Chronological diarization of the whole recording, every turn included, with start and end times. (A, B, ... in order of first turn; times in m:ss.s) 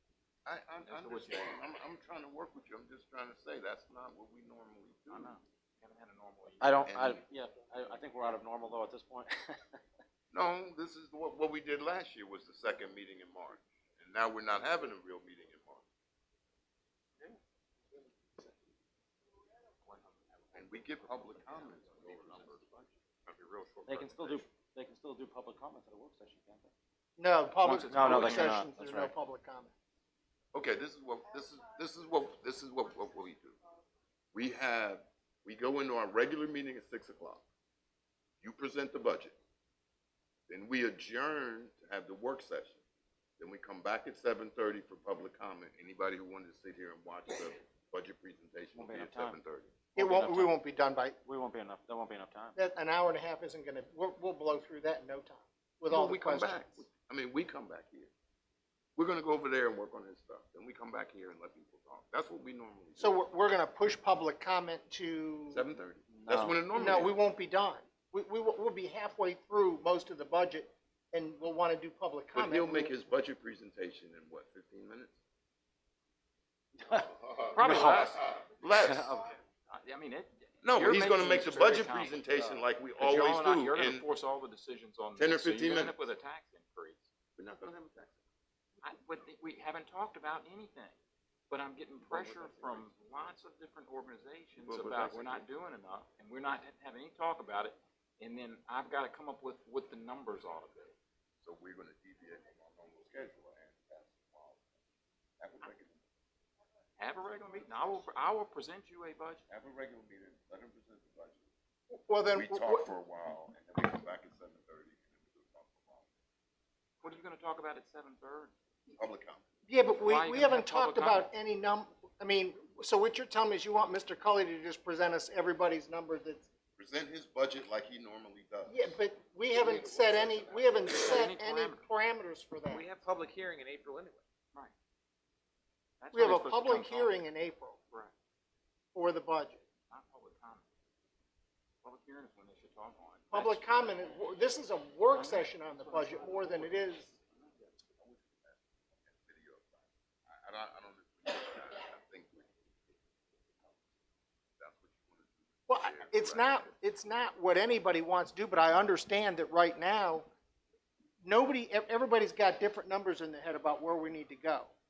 0:00.4-0:05.3 A
0:00.8-0:01.6 B
0:05.1-0:06.9 B
0:06.6-0:09.8 C
0:06.9-0:07.2 A
0:10.3-0:15.8 A
0:19.8-0:24.4 B
0:20.5-0:22.8 A
0:23.8-0:26.7 C
0:27.2-0:29.7 D
0:27.6-0:28.6 B
0:27.9-0:29.1 C
0:30.5-0:33.6 A
0:34.3-0:37.4 A
0:38.4-0:39.4 A
0:40.5-0:42.8 A
0:43.4-0:49.7 A
0:48.7-0:49.4 C
0:49.9-0:50.6 C
0:49.9-0:51.2 D
0:51.2-0:52.5 C
0:52.6-0:56.8 D
0:55.9-0:58.1 A
0:59.0-1:03.2 A
1:03.0-1:05.6 D
1:05.5-1:07.1 A
1:06.1-1:06.6 C
1:06.7-1:12.9 D
1:12.3-1:15.2 A
1:16.8-1:18.1 C
1:16.9-1:19.2 A
1:17.5-1:18.2 B
1:18.8-1:19.3 C
1:19.7-1:22.2 B
1:20.6-1:24.0 A
1:22.3-1:22.6 C
1:23.0-1:27.0 B
1:25.2-1:26.0 A
1:27.4-1:28.2 A
1:28.8-1:31.0 B
1:31.5-1:40.9 B
1:32.0-1:32.9 C
1:34.6-1:35.4 A
1:41.4-1:44.6 A
1:45.4-1:46.0 A
1:47.0-1:49.4 B
1:49.5-1:51.4 A
1:51.9-1:52.9 D
1:52.3-1:56.1 A
1:57.0-1:58.5 B
1:58.9-1:59.4 A
1:59.6-2:06.5 D
2:00.0-2:01.3 B
2:06.8-2:08.9 A
2:08.6-2:12.9 D
2:09.6-2:10.6 A
2:09.7-2:10.4 E
2:10.8-2:11.8 B
2:12.7-2:14.2 E
2:16.0-2:17.2 B
2:16.1-2:17.8 D
2:18.9-2:19.6 D
2:19.9-2:20.6 B
2:21.8-2:24.1 B
2:23.3-2:27.1 D
2:25.1-2:27.2 B
2:27.9-2:32.5 A
2:34.6-2:36.7 A
2:35.7-2:40.3 D
2:41.2-2:44.7 D